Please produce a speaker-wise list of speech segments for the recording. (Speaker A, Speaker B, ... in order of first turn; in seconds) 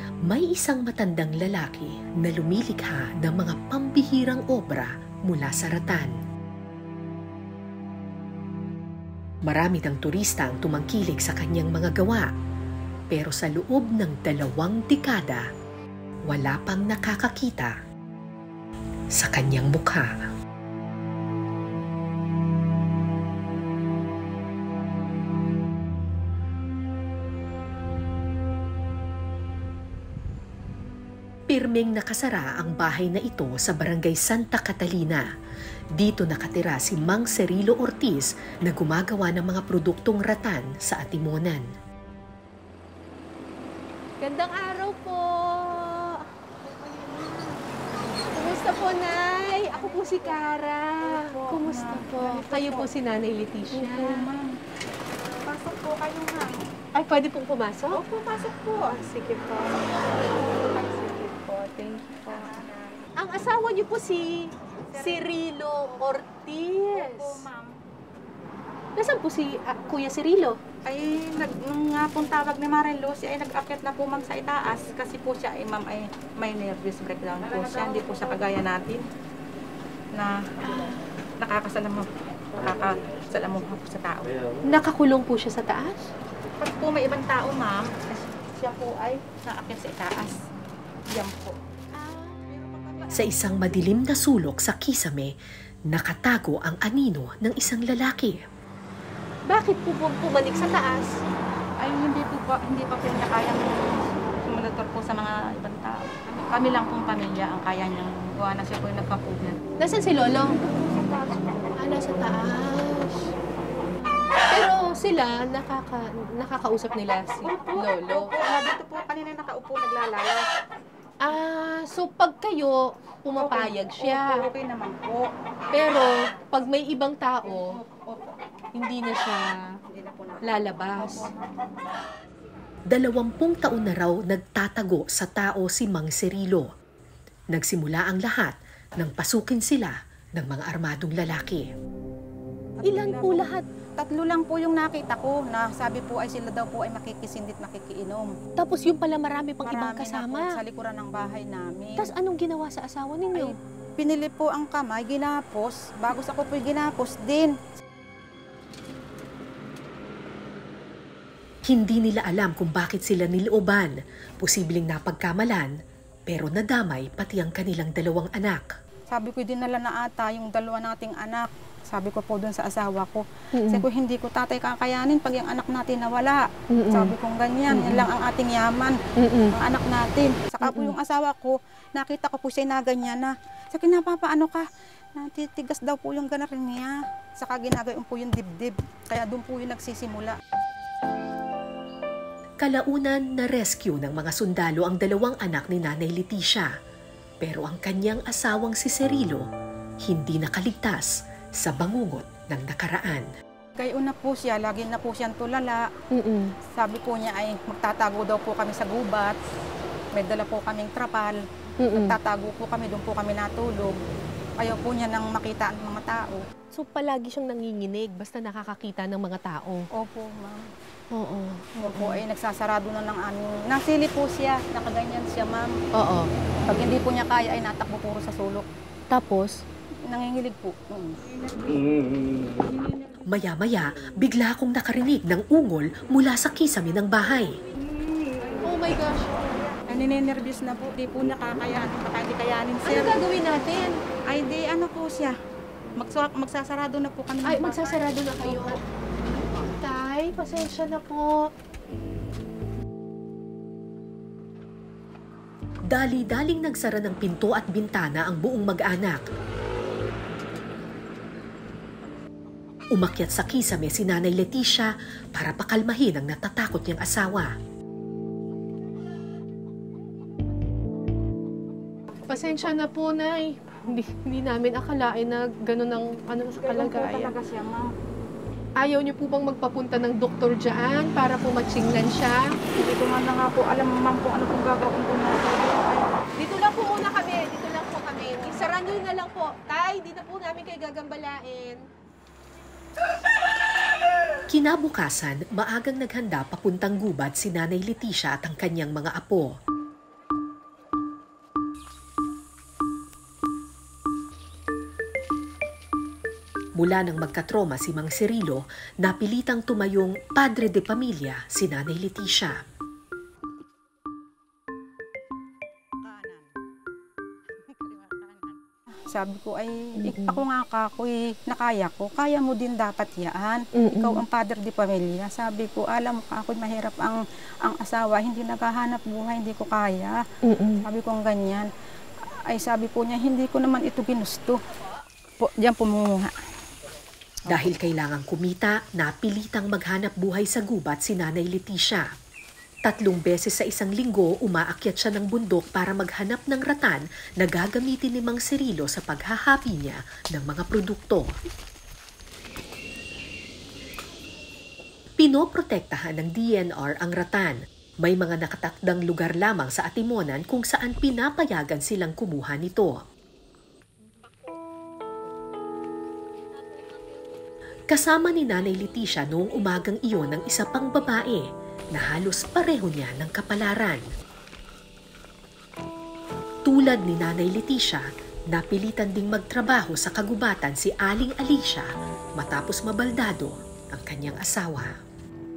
Speaker A: 0.3-6.2, 9.4-12.3, 13.1-15.5, 16.3-17.8, 19.1-20.3, 31.5-35.3, 36.0-41.7, 93.2-95.4, 95.9-98.4, 132.9-136.7, 137.5-141.7, 161.7-165.8, 166.3-168.8, 192.6-196.7, 197.4-199.5, 200.0-203.3, 233.3-237.6, 255.9-259.2, 262.9-267.6, 294.5-299.6, 306.8-312.6, 337.5-342.1, 342.9-351.4, 355.2-363.0, 367.9-374.1, 376.6-385.0
Speaker B: 44.2-46.2, 48.3-54.3, 57.0-58.0, 63.2-67.5, 69.0-70.6, 80.6-81.0, 84.7-86.1, 99.5-101.2, 109.8-110.6, 111.8-113.3, 114.5-118.3, 121.2-124.4, 125.7-127.6, 128.8-129.4, 130.4-131.3, 142.9-143.6, 148.6-150.5, 152.0-153.6, 173.6-173.8, 176.7-177.1, 177.7-178.1, 179.2-179.5, 180.6-180.9, 206.1-206.5, 211.8-212.2, 216.7-219.9, 221.1-222.2, 226.0-226.3, 229.1-229.6, 238.6-239.6, 242.8-243.9, 247.5-248.8, 249.5-251.3, 272.3-277.4, 278.8-282.5, 286.4-291.8, 320.0-320.4, 323.8-324.2, 330.5-330.8
Speaker C: 46.6-48.3, 49.3-50.5, 51.0-52.9, 53.7-54.5, 55.5-56.6, 57.9-63.1, 64.8-65.3, 65.9-66.2, 66.9-67.8, 70.8-79.0, 80.2-80.5, 81.4-84.3, 86.6-90.4, 91.1-93.3, 101.8-109.6, 110.4-111.7, 117.5-120.5, 123.4-125.3, 127.4-128.2, 129.9-131.5, 142.8-143.4, 144.0-148.4, 149.6-152.1, 153.3-157.6, 169.1-179.0, 179.5-190.4, 203.8-205.9, 206.8-209.4, 210.1-214.0, 214.6-216.5, 219.9-220.7, 221.8-225.7, 226.7-228.7, 230.1-231.7, 238.4-238.7, 239.7-243.2, 244.3-245.4, 246.0-248.8, 276.6-277.9, 282.8-286.1, 316.0-316.5, 317.7-318.6, 319.1-330.2, 330.8-331.7, 332.5-334.6, 335.4-336.3